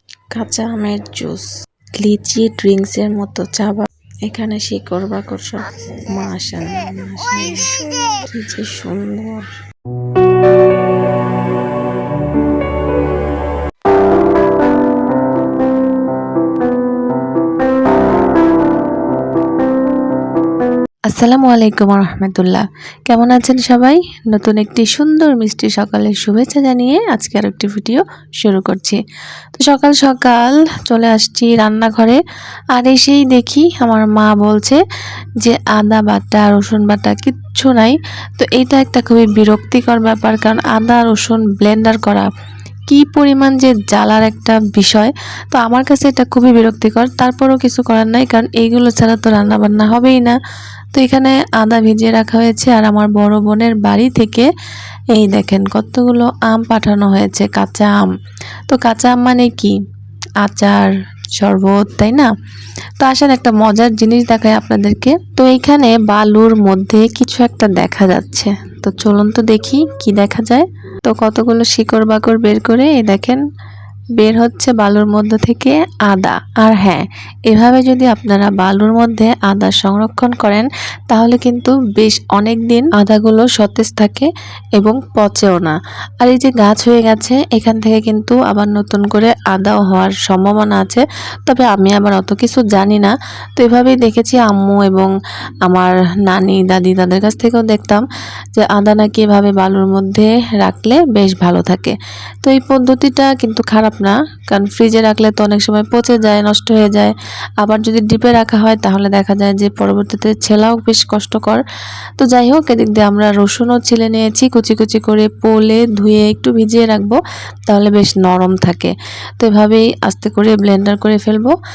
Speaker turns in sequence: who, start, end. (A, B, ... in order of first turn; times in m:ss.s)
0:00.3-0:09.5 A
0:21.1-0:29.0 A
0:29.5-0:32.2 A
0:32.7-0:34.8 A
0:35.4-0:42.3 A
0:42.9-0:50.4 A
0:50.9-0:54.5 A
0:55.1-0:58.1 A
0:58.7-0:59.8 A
1:00.4-1:02.3 A
1:03.0-1:13.4 A
1:14.2-1:35.1 A
1:35.6-1:51.6 A
1:52.2-2:01.5 A